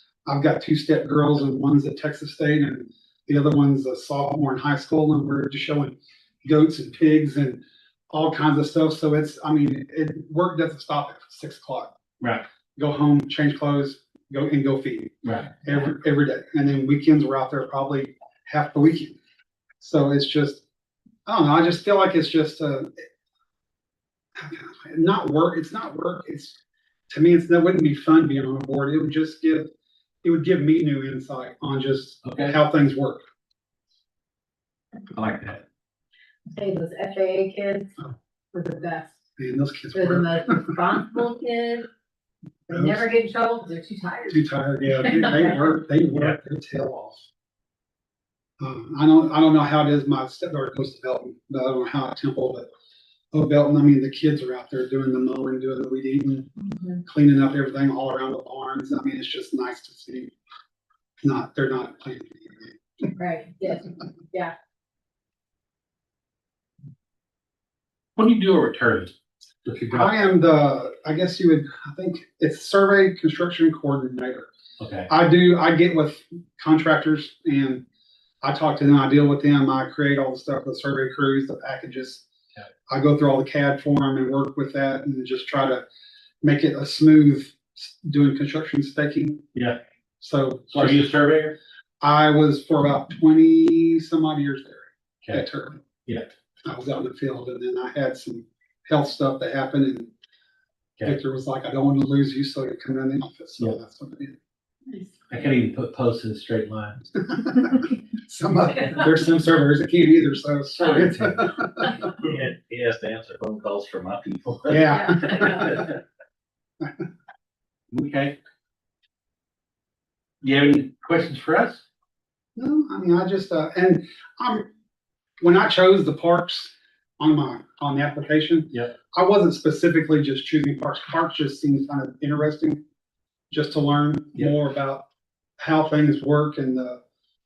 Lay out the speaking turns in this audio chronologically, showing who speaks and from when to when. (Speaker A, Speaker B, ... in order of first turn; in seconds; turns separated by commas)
Speaker A: 0.2-11.9, Speaker A: 12.8-15.1, Speaker B: 15.2-15.6, Speaker A: 15.6-19.1, Speaker A: 19.8-20.6, Speaker A: 21.2-23.0, Speaker A: 24.4-26.6, Speaker A: 27.1-29.7, Speaker A: 30.2-33.2, Speaker B: 32.2-32.6, Speaker B: 35.1-35.6, Speaker C: 36.5-38.0, Speaker C: 38.5-39.1, Speaker A: 39.4-40.7, Speaker C: 39.9-41.9, Speaker A: 42.7-43.0, Speaker C: 42.7-44.4, Speaker A: 44.3-47.2, Speaker C: 45.0-45.5, Speaker A: 48.6-52.7, Speaker A: 53.3-56.5, Speaker C: 56.6-57.0, Speaker A: 57.0-60.3, Speaker A: 61.2-62.8, Speaker C: 63.1-64.5, Speaker B: 68.2-69.1, Speaker B: 69.6-70.3, Speaker A: 69.9-74.5, Speaker B: 74.8-75.1, Speaker A: 75.1-77.8, Speaker A: 78.4-82.2, Speaker A: 82.9-85.8, Speaker A: 86.4-89.4, Speaker A: 90.2-91.0, Speaker B: 90.7-91.6, Speaker A: 92.0-95.8, Speaker A: 96.6-100.1, Speaker A: 101.0-104.4, Speaker C: 104.9-105.2, Speaker B: 105.3-107.2, Speaker A: 107.3-112.1, Speaker B: 110.8-111.3, Speaker D: 112.2-114.8, Speaker B: 112.2-112.5, Speaker A: 114.7-115.8, Speaker C: 114.9-115.8, Speaker B: 117.9-118.3, Speaker B: 120.4-121.8, Speaker A: 122.5-124.7, Speaker A: 125.4-132.8, Speaker A: 133.5-135.1, Speaker A: 135.6-137.0